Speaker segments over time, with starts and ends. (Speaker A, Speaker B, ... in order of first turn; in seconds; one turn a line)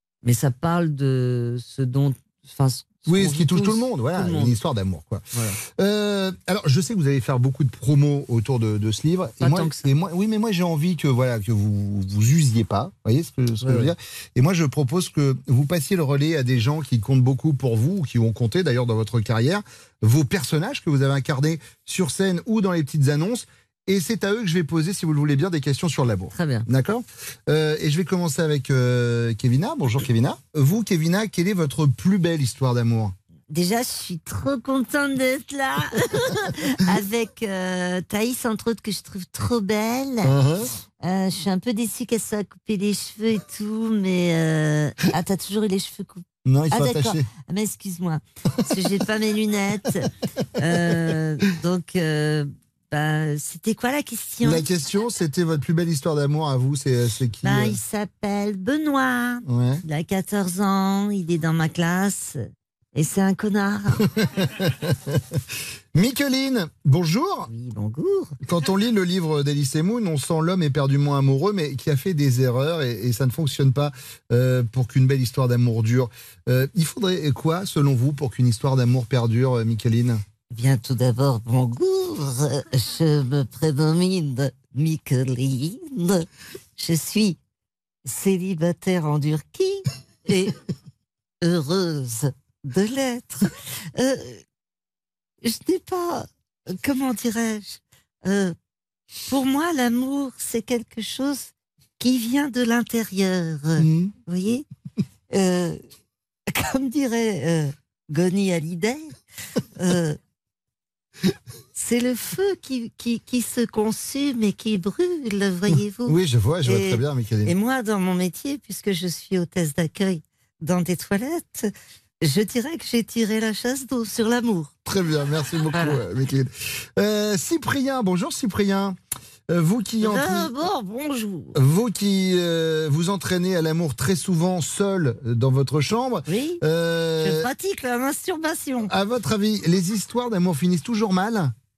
Speaker A: 0.2-4.6
Speaker B: 3.1-33.1
Speaker A: 5.3-5.6
Speaker A: 9.4-9.9
Speaker A: 13.6-13.9
Speaker A: 26.3-26.7
Speaker C: 33.5-40.3
Speaker B: 40.2-40.7
Speaker C: 41.0-54.6
Speaker B: 46.4-47.2
Speaker B: 54.4-57.8
Speaker C: 57.4-62.4
Speaker B: 59.5-59.8
Speaker C: 62.9-64.0
Speaker B: 64.3-65.4
Speaker B: 65.9-67.5
Speaker C: 67.5-68.3
Speaker B: 68.4-80.2
Speaker C: 80.5-87.4
Speaker C: 88.0-90.6
Speaker C: 91.4-94.4
Speaker C: 95.4-98.5
Speaker C: 99.2-104.7
Speaker B: 103.8-104.1
Speaker C: 105.3-105.8
Speaker C: 106.5-109.2
Speaker C: 109.8-110.2
Speaker C: 111.7-124.7
Speaker B: 115.7-117.5
Speaker B: 124.8-129.0
Speaker C: 125.7-126.0
Speaker B: 129.5-130.5
Speaker C: 130.0-131.6
Speaker B: 131.5-137.5
Speaker C: 136.3-136.6
Speaker C: 137.2-138.9
Speaker B: 138.9-141.5